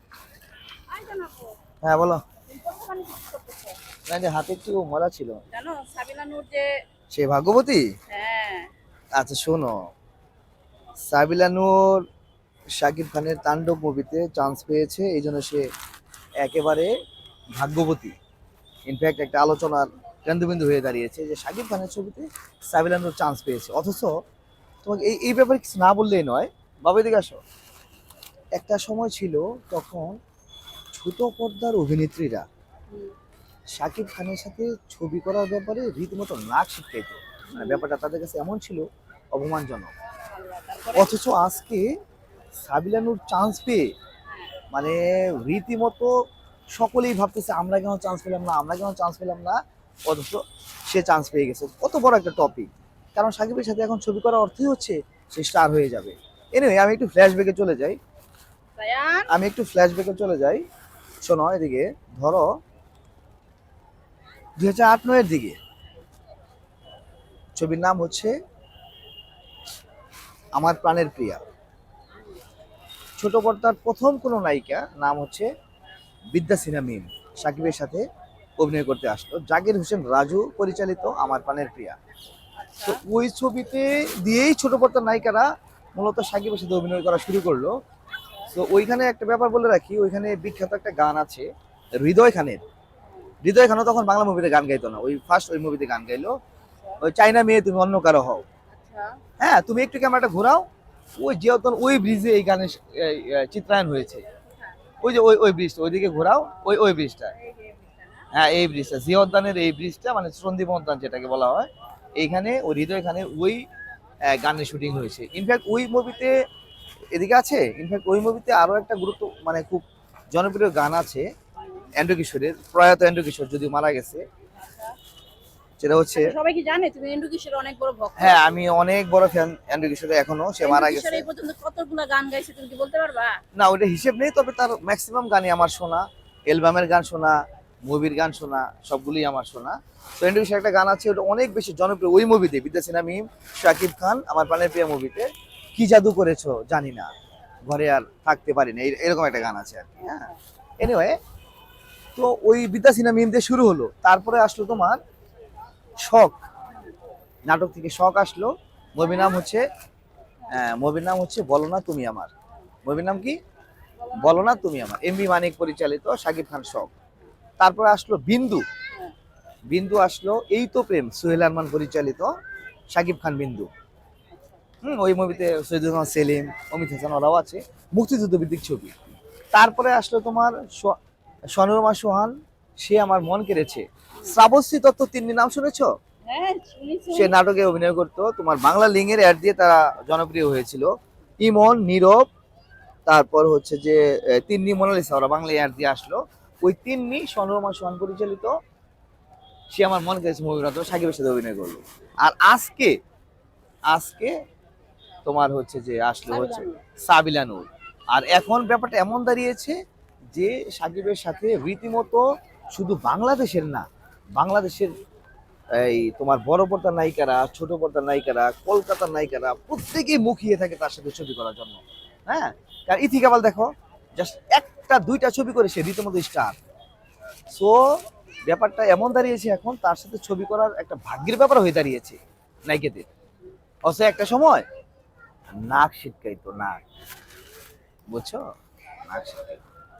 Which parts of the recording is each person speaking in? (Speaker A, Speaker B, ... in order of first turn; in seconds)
Speaker A: 0.9-1.5, 2.5-3.8, 5.5-6.7, 8.1-8.7, 37.5-37.8, 40.3-41.1, 44.3-44.5, 58.8-59.3, 82.6-83.0, 98.7-99.2, 107.3-108.3, 124.5-124.9, 126.1-128.4, 130.6-133.3, 164.0-164.5, 186.3-187.3, 206.3-206.8
Speaker B: 1.8-2.2, 4.1-5.4, 7.1-7.9, 9.1-9.8, 11.1-12.0, 12.8-15.7, 16.4-16.9, 17.6-18.1, 18.9-24.1, 24.8-27.4, 28.6-30.2, 30.9-32.5, 33.8-39.9, 40.9-41.9, 42.6-43.9, 44.7-46.1, 46.7-58.0, 59.3-60.6, 61.2-62.5, 64.6-65.6, 67.5-68.3, 70.5-71.4, 73.2-75.5, 76.3-78.0, 78.6-82.0, 82.8-87.7, 88.5-92.6, 93.4-96.3, 97.0-98.4, 99.4-100.6, 101.2-104.2, 105.0-107.3, 108.3-113.6, 114.2-116.3, 117.1-121.2, 122.0-124.2, 125.8-126.3, 128.2-131.2, 133.5-147.1, 147.7-151.2, 152.2-155.0, 156.0-156.4, 157.5-159.7, 160.5-162.3, 162.8-163.4, 164.1-166.9, 167.6-168.6, 169.7-172.3, 172.9-173.7, 174.8-178.9, 179.5-180.9, 181.6-185.9, 187.1-190.9, 191.4-192.2, 193.1-198.5, 199.7-202.9, 203.9-204.3, 205.2-209.7, 210.3-213.8, 214.4-214.9, 215.7-226.6, 227.5-227.8, 228.5-233.1, 233.8-234.6, 235.6-236.8, 238.1-238.4, 239.1-239.6